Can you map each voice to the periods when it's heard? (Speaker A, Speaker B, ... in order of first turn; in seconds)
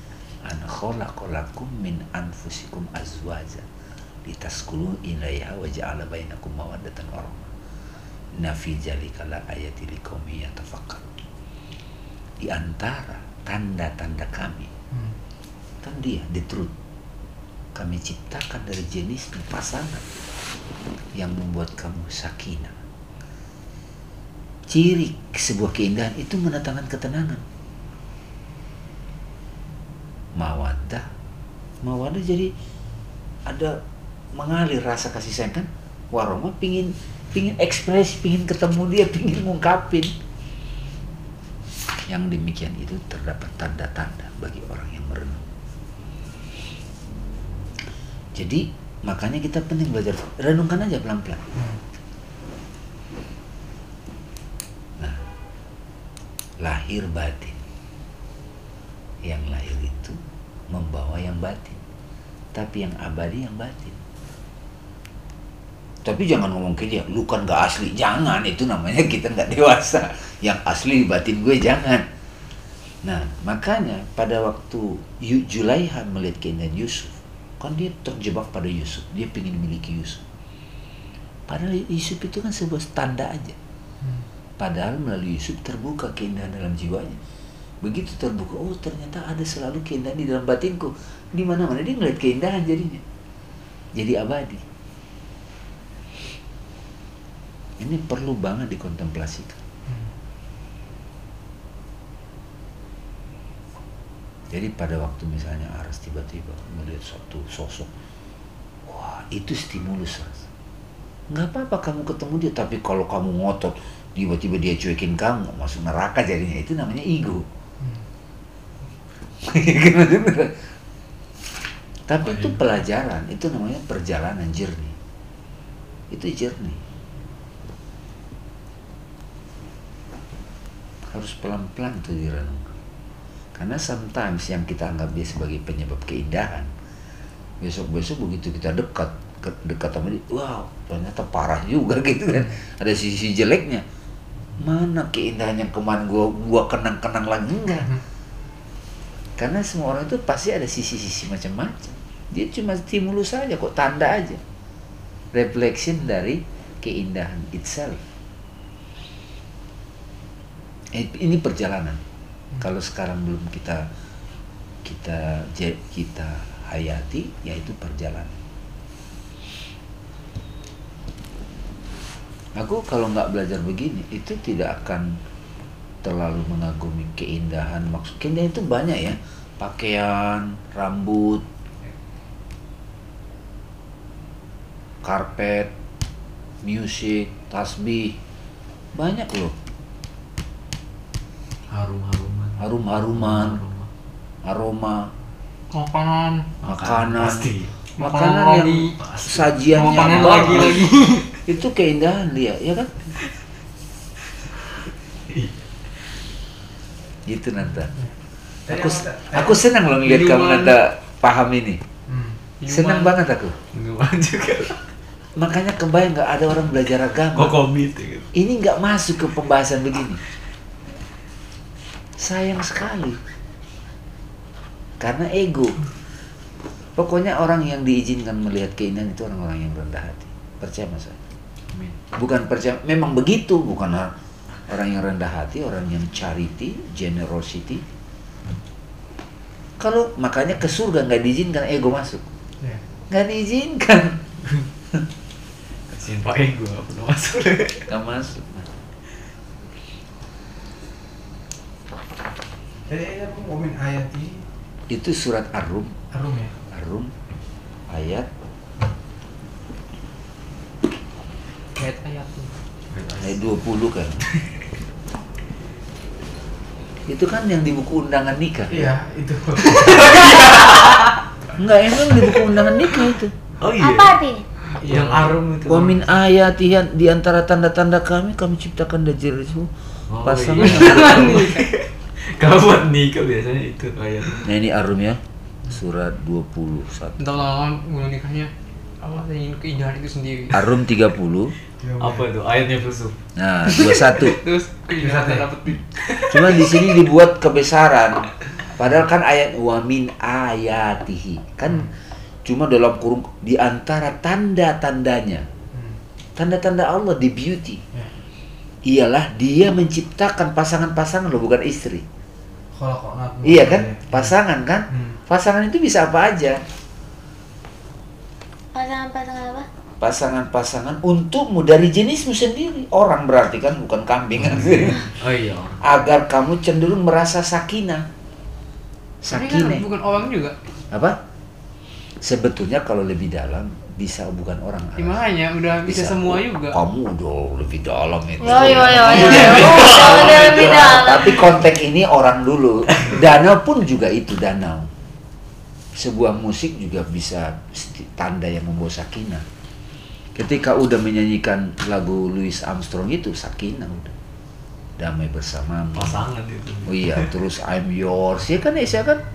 Speaker A: 0.5-3.6, 4.2-7.5, 8.3-11.1, 12.4-14.7, 15.8-16.7, 17.7-20.0, 21.1-22.8, 24.7-27.4, 30.4-31.1, 31.8-32.5, 33.5-33.8, 34.4-40.1, 42.1-45.5, 48.3-51.4, 56.6-57.6, 59.2-60.2, 60.7-61.8, 62.5-64.0, 66.0-72.0, 73.0-80.2, 81.5-83.6, 84.6-87.2, 87.8-93.0, 93.9-94.6, 97.8-99.6, 104.5-107.9, 108.9-110.4, 111.3-117.5, 119.4-120.5, 122.1-125.0, 126.1-126.8, 131.1-132.7, 133.5-136.7, 137.6-143.8, 144.6-147.9, 149.4-154.4, 155.3-158.0, 160.9-162.0, 162.6-163.9, 164.8-168.4, 172.6-175.1, 176.0-181.4, 185.0-185.7, 186.6-188.2, 188.9-189.5, 192.6-193.6, 194.4-195.1, 196.6-200.9, 201.4-202.9, 207.3-207.9, 208.7-211.8, 212.7-213.6, 215.4-217.6, 218.3-220.2, 222.2-223.2, 225.0-225.8, 227.0-231.2, 232.1-234.1, 234.7-237.8, 239.8-242.3, 243.1-244.2, 247.9-248.7, 254.9-256.0, 256.7-257.1, 257.9-258.3, 263.2-264.2, 267.1-268.9, 269.8-270.5, 271.6-273.3, 275.6-281.5, 284.4-287.4, 290.5-291.5, 293.4-294.4, 296.3-298.2, 298.8-301.9, 302.4-305.4, 306.4-307.8, 308.9-312.0, 313.4-316.6, 320.0-325.1, 325.8-328.0, 329.2-329.8, 330.9-331.2, 332.2-335.2, 335.8-344.9, 345.9-349.4, 350.4-354.1, 355.0-356.2, 356.9-359.2
Speaker B: 14.9-15.2, 51.5-51.8, 99.9-100.1, 208.7-209.7, 212.1-212.4, 252.8-254.4, 256.1-256.5, 268.7-270.4, 274.8-275.3, 291.8-292.3, 295.0-295.5, 305.7-306.0, 312.7-314.3, 314.9-315.2
Speaker C: 122.2-122.6, 191.7-193.9, 196.6-197.8, 198.9-201.2, 205.3-205.6, 213.7-214.9, 217.3-218.3, 245.9-247.9, 262.9-263.4, 269.6-271.2, 272.1-272.6, 273.6-274.2, 274.8-276.0, 280.1-284.5, 292.0-293.2, 324.4-325.8, 338.7-340.9, 355.9-357.3
Speaker D: 195.7-196.5, 198.0-199.0, 199.7-201.2, 210.0-210.8, 212.6-213.1, 261.8-262.5, 280.6-281.6, 287.2-290.7, 293.7-296.7, 329.3-330.5, 335.0-336.8
Speaker E: 273.8-274.4, 318.7-319.7, 338.4-341.4